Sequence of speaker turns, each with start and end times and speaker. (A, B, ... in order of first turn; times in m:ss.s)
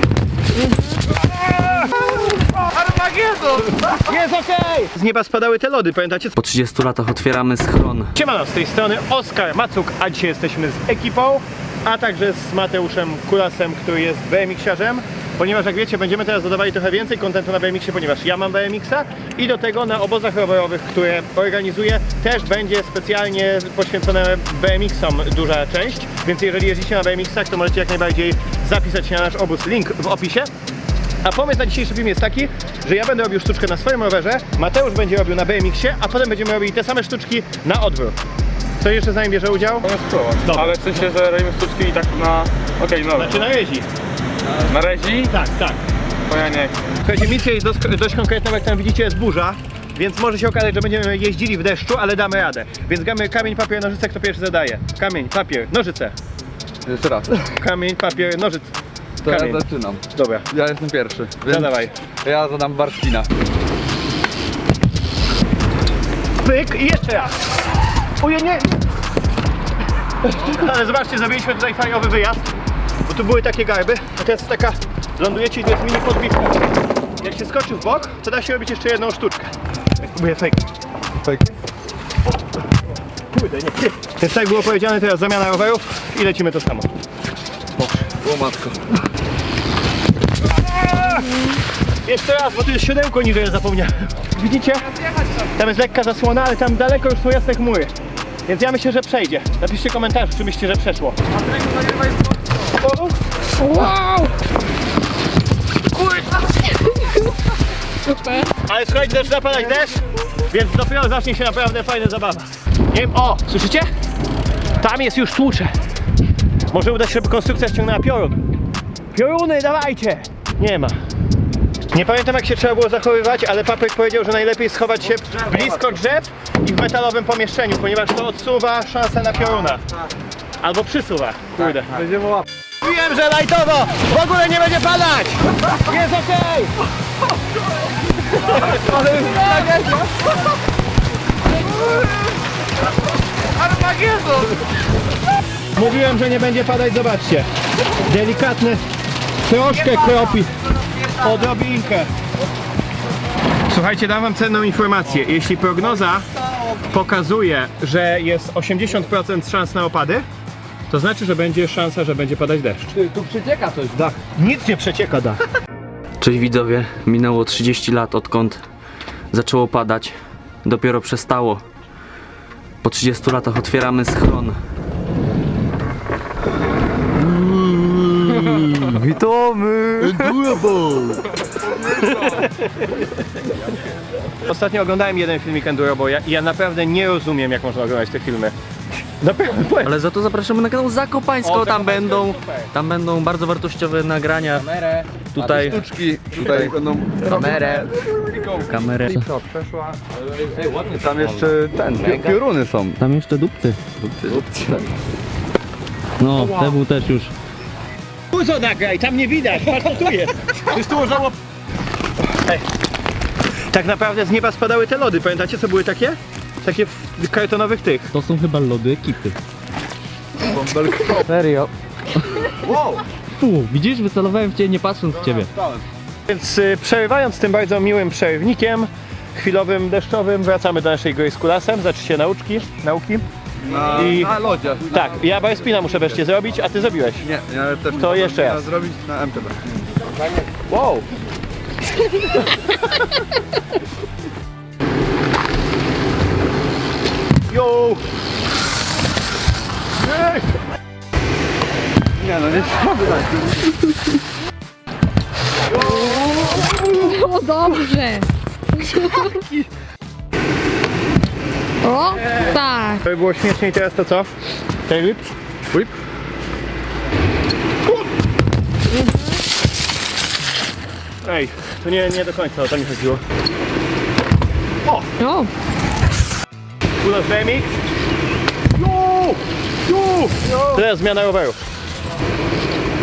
0:00.6-0:00.8 A
0:03.8-0:06.4 B
0:06.4-0:08.1 C
0:08.2-0:30.5 B
0:31.2-0:38.2 B
0:38.8-0:39.9 B
0:39.9-0:43.4 D
0:40.4-0:40.8 B
0:43.2-0:43.9 B
0:44.7-0:45.3 D
0:45.3-0:45.8 B
0:46.3-0:46.7 D
0:47.0-0:56.1 B
0:56.8-0:57.5 E
0:57.5-0:58.7 B
0:59.2-1:03.3 E
0:59.2-0:59.6 B
1:00.1-1:00.5 B
1:01.5-1:01.9 B
1:06.4-1:07.4 B
1:08.2-1:08.7 B
1:10.2-1:12.5 B
1:13.1-1:16.6 B
1:17.2-1:20.6 B
1:21.2-1:21.5 E
1:23.3-1:26.9 B
1:27.8-1:28.0 B
1:28.1-1:28.9 E
1:32.0-1:34.9 B
1:35.4-1:37.9 B
1:38.5-1:41.2 B
1:42.8-1:43.1 B
1:43.6-1:44.3 A
1:48.1-1:48.5 A
1:48.6-1:53.9 B
1:54.8-1:55.7 B
1:56.7-1:58.4 B
1:59.1-2:01.0 B
2:01.9-2:09.8 B
2:10.6-2:12.1 B
2:11.9-2:12.4 E
2:12.8-2:16.7 B
2:18.7-2:20.1 E
2:23.8-2:24.5 E
2:25.8-2:27.5 B
2:28.0-2:28.8 B
2:29.4-2:30.5 B
2:31.1-2:32.1 B
2:33.7-2:36.3 B
2:36.8-2:40.2 B
2:40.9-2:42.9 B
2:43.0-2:44.1 C
2:44.2-2:45.4 B
2:46.2-2:48.6 C
2:49.3-2:51.6 C
2:52.8-2:54.6 C
2:57.2-3:01.2 C
3:04.4-3:08.5 B
3:09.2-3:10.0 B
3:09.8-3:16.8 C
3:15.4-3:20.0 E
3:17.3-3:17.9 C
3:18.6-3:19.3 C
3:20.4-3:22.4 C
3:20.8-3:23.0 E
3:23.0-3:24.4 C
3:24.0-3:24.8 E
3:26.2-3:27.3 C
3:28.3-3:31.4 B
3:33.7-3:38.1 B
3:38.1-3:39.4 C
3:40.4-3:41.3 E
3:41.2-3:42.7 C
3:42.6-3:43.0 E
3:43.4-3:45.5 C
3:45.2-3:45.8 E
3:46.3-3:53.3 B
3:53.6-3:56.0 E
3:53.8-3:54.4 B
3:54.9-3:57.3 B
3:57.2-3:59.7 E
3:58.0-3:58.7 B
4:00.7-4:01.1 E
4:07.5-4:08.0 B
4:07.6-4:08.0 E
4:10.1-4:10.4 E
4:12.2-4:13.6 E
4:15.9-4:18.3 A
4:16.1-4:17.0 E
4:18.8-4:19.5 A
4:21.8-4:23.0 A
4:23.0-4:24.3 B
4:24.9-4:25.2 B
4:31.2-4:33.2 B
4:35.2-4:35.5 A
4:37.0-4:37.7 B
4:38.8-4:41.6 B
4:40.4-4:40.8 E